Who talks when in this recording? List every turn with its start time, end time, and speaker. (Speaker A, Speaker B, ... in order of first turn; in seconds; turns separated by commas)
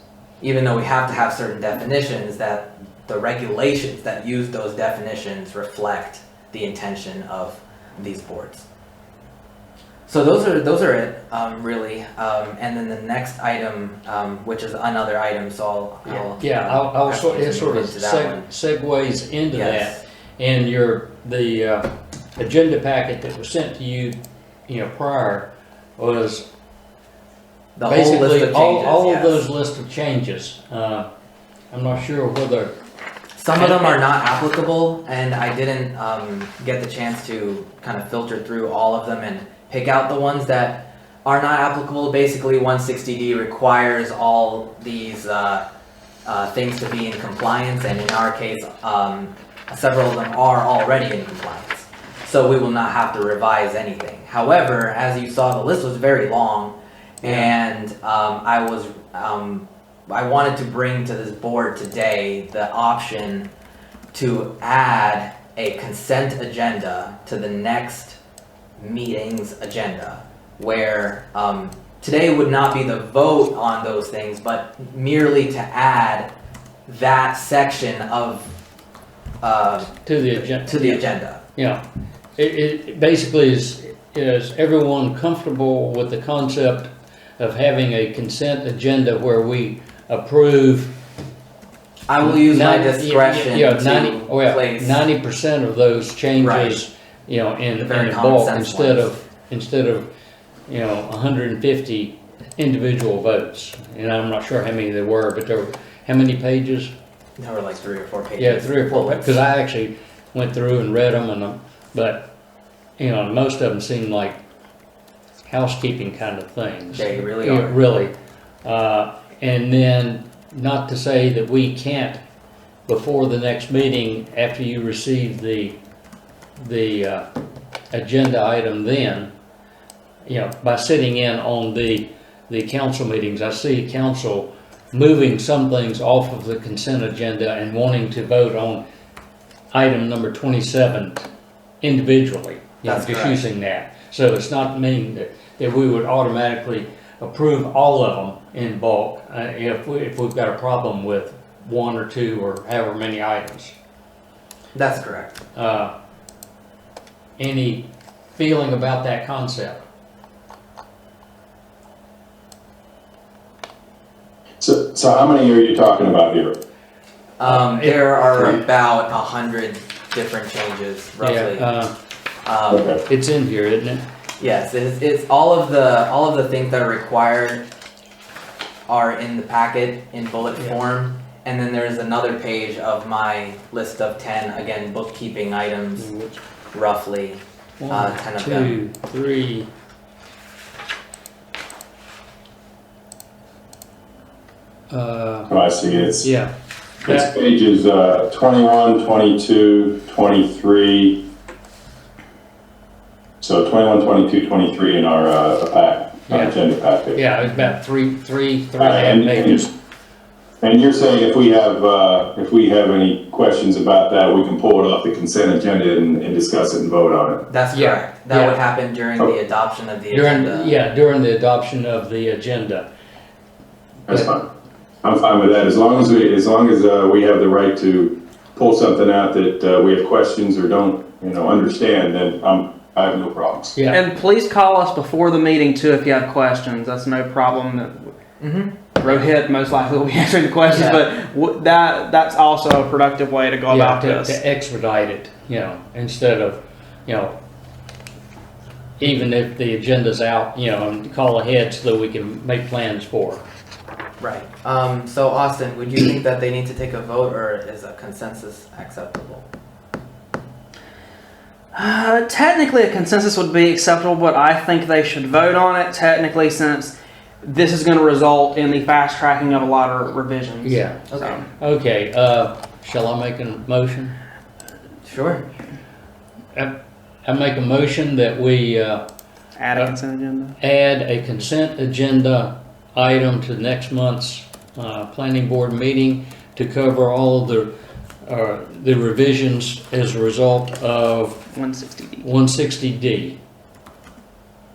Speaker A: 0.4-8.7, Speaker A: 10.1-18.5, Speaker B: 16.4-24.2, Speaker A: 19.5-20.0, Speaker B: 24.7-26.4, Speaker A: 27.8-29.4, Speaker B: 27.9-31.1, Speaker B: 31.7-32.7, Speaker A: 33.4-45.6, Speaker B: 33.5-34.0, Speaker A: 46.2-63.5, Speaker A: 64.1-68.2, Speaker A: 68.8-76.3, Speaker A: 76.9-78.5, Speaker A: 79.4-81.4, Speaker B: 80.0-81.8, Speaker B: 82.4-90.9, Speaker A: 92.1-95.0, Speaker B: 92.2-100.1, Speaker A: 96.4-96.8, Speaker A: 97.8-99.1, Speaker B: 100.7-106.9, Speaker A: 107.4-109.4, Speaker B: 108.4-112.3, Speaker B: 113.0-114.4, Speaker B: 115.5-118.1, Speaker A: 116.9-117.8, Speaker B: 118.6-122.2, Speaker B: 122.9-125.8, Speaker B: 126.6-127.2, Speaker B: 127.9-129.3, Speaker B: 130.2-138.8, Speaker B: 139.7-141.2, Speaker B: 141.8-153.7, Speaker A: 142.8-143.4, Speaker A: 154.7-155.4, Speaker B: 155.6-155.9, Speaker B: 157.4-159.8, Speaker C: 164.6-166.6, Speaker A: 167.4-171.7, Speaker B: 167.4-168.6, Speaker B: 171.2-171.9, Speaker A: 172.4-173.0, Speaker C: 172.7-173.0, Speaker B: 173.1-174.0, Speaker A: 174.4-177.6, Speaker A: 178.9-186.1, Speaker B: 186.0-186.3, Speaker A: 186.7-188.8, Speaker B: 187.8-189.7, Speaker B: 194.9-195.5, Speaker C: 195.5-196.3, Speaker B: 196.2-196.5, Speaker C: 197.0-201.2, Speaker C: 203.4-207.2, Speaker B: 206.3-206.6, Speaker B: 207.1-209.7, Speaker C: 208.8-209.7, Speaker C: 210.6-217.4, Speaker A: 217.5-220.8, Speaker B: 217.7-218.6, Speaker B: 220.1-222.8, Speaker C: 224.1-224.5, Speaker C: 225.0-233.7, Speaker B: 233.8-234.0, Speaker D: 233.9-238.1, Speaker A: 238.4-239.2, Speaker D: 239.0-244.4, Speaker A: 240.7-241.0, Speaker B: 243.7-247.3, Speaker B: 249.0-253.4, Speaker A: 254.2-259.5, Speaker D: 261.7-271.5, Speaker B: 270.6-271.0, Speaker A: 271.1-271.4, Speaker B: 271.6-274.1, Speaker A: 275.1-275.4, Speaker B: 277.2-279.0, Speaker D: 279.6-280.6, Speaker B: 280.6-287.7, Speaker B: 288.2-291.4, Speaker D: 291.5-292.3, Speaker B: 292.2-293.4